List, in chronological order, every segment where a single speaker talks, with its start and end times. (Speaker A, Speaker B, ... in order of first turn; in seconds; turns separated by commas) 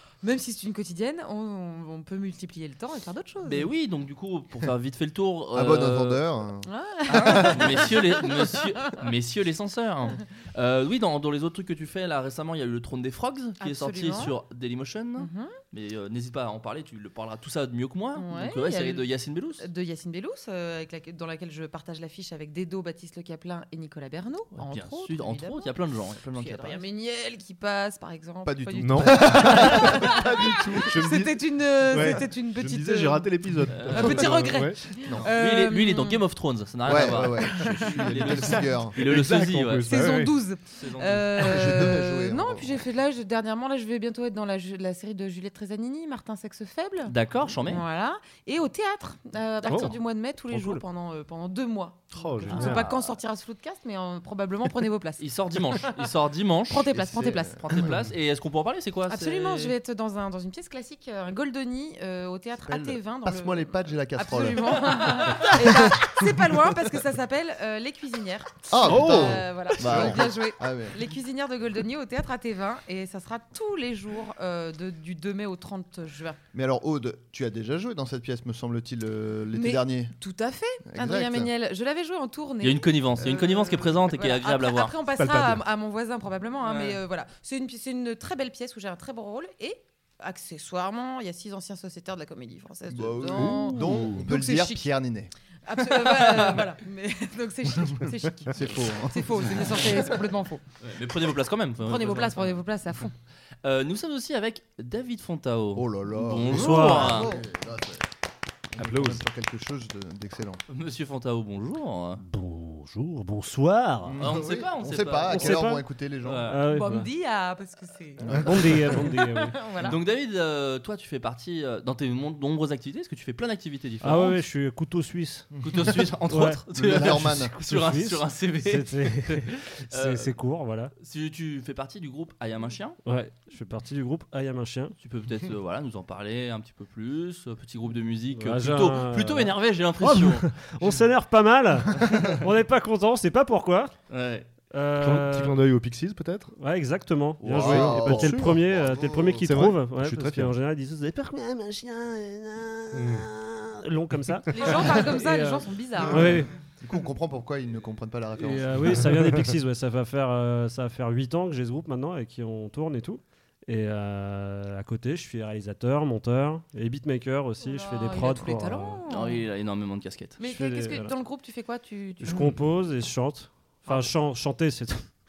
Speaker A: 0.2-3.7, Speaker B: 3.4-6.2, Speaker C: 5.5-7.9, Speaker A: 6.6-8.9, Speaker B: 7.1-19.6, Speaker A: 13.6-14.3, Speaker A: 15.2-15.5, Speaker A: 18.1-19.0, Speaker A: 19.6-25.7, Speaker B: 24.5-26.8, Speaker A: 26.3-33.3, Speaker C: 28.4-30.3, Speaker D: 28.8-34.8, Speaker B: 33.7-34.3, Speaker A: 33.9-36.2, Speaker C: 35.0-35.3, Speaker B: 35.2-39.9, Speaker C: 36.8-39.0, Speaker D: 38.1-40.4, Speaker A: 39.9-47.1, Speaker B: 40.7-41.4, Speaker C: 41.4-42.8, Speaker B: 47.0-47.8, Speaker A: 47.6-55.2, Speaker D: 49.7-50.0, Speaker E: 50.5-50.8, Speaker D: 52.1-53.0, Speaker C: 52.5-52.8, Speaker B: 55.2-59.7, Speaker A: 56.7-57.8, Speaker C: 56.9-58.1, Speaker A: 59.1-76.4, Speaker C: 62.6-66.2, Speaker C: 68.7-71.0, Speaker D: 68.8-70.1, Speaker C: 76.5-80.1, Speaker A: 79.5-94.9, Speaker C: 80.8-81.5, Speaker B: 82.6-84.9, Speaker D: 85.2-85.6, Speaker B: 86.6-87.0, Speaker C: 92.9-96.6, Speaker D: 93.3-94.3, Speaker A: 95.6-100.6, Speaker C: 98.5-100.2, Speaker B: 100.8-102.5, Speaker A: 101.8-103.1, Speaker B: 103.6-107.3, Speaker C: 105.7-108.0, Speaker E: 106.4-107.2, Speaker A: 106.8-107.4, Speaker C: 108.7-110.6, Speaker D: 108.8-109.2, Speaker B: 110.7-112.2, Speaker E: 112.2-114.2, Speaker C: 114.0-116.5, Speaker B: 114.2-115.7, Speaker E: 115.3-115.8, Speaker B: 116.2-116.6, Speaker E: 116.5-117.1, Speaker A: 116.7-120.0, Speaker E: 118.2-119.6, Speaker C: 118.2-119.0, Speaker B: 119.8-124.4, Speaker E: 124.0-125.5, Speaker C: 125.5-126.1, Speaker B: 125.6-130.3, Speaker E: 126.2-130.9, Speaker C: 126.7-127.5, Speaker B: 130.9-133.0, Speaker E: 133.0-134.9, Speaker B: 135.0-140.9, Speaker E: 138.3-143.9, Speaker B: 144.1-144.5, Speaker E: 144.7-145.6, Speaker D: 145.0-146.5, Speaker E: 146.6-156.5, Speaker C: 147.4-149.6, Speaker D: 147.5-148.6, Speaker D: 149.4-150.5, Speaker D: 152.9-153.3, Speaker A: 154.5-156.3, Speaker C: 156.0-159.2, Speaker E: 158.3-169.0, Speaker A: 167.6-169.4, Speaker B: 169.1-170.4, Speaker A: 170.4-172.5, Speaker E: 170.4-171.1, Speaker E: 172.2-175.1